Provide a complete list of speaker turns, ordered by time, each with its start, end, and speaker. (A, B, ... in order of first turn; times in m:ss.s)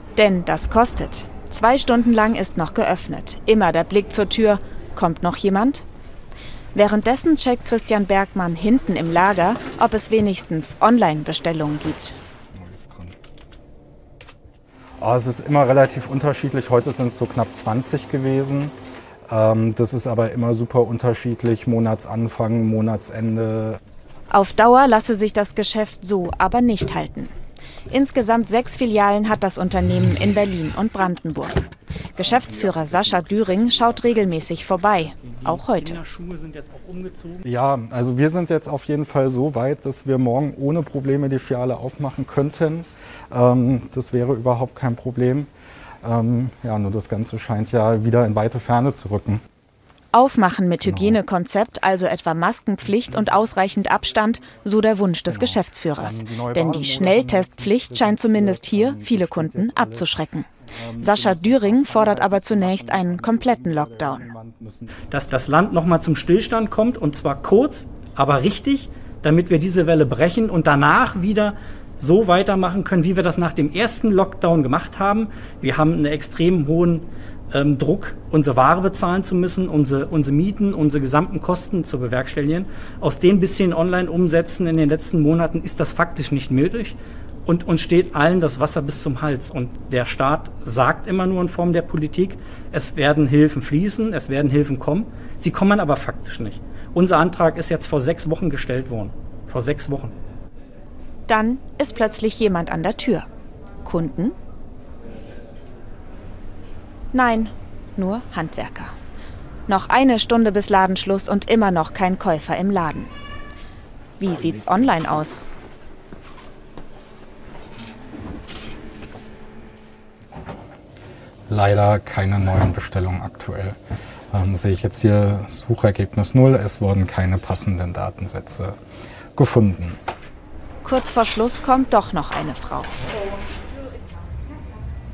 0:00.2-0:05.8 A
0:06.7-0:12.2 A
0:12.5-0:13.2 B
0:15.0-0:18.7 B
0:19.3-0:23.8 B
0:24.3-0:27.3 A
0:27.9-0:36.0 A
0:32.2-0:34.4 B
0:35.1-0:37.4 C
0:37.4-0:45.5 B
0:46.0-0:49.4 B
0:50.1-1:00.5 A
0:50.8-0:51.2 B
0:55.3-1:00.2 B
1:00.8-1:04.9 B
1:01.0-1:04.3 A
1:05.1-1:40.1 C
1:41.3-1:43.2 A
1:43.8-1:44.3 A
1:47.1-1:48.9 A
1:49.7-1:53.1 A
1:54.2-1:55.4 A
2:01.5-2:03.8 B
2:04.3-2:08.8 B
2:09.4-2:10.0 B
2:10.8-2:13.0 A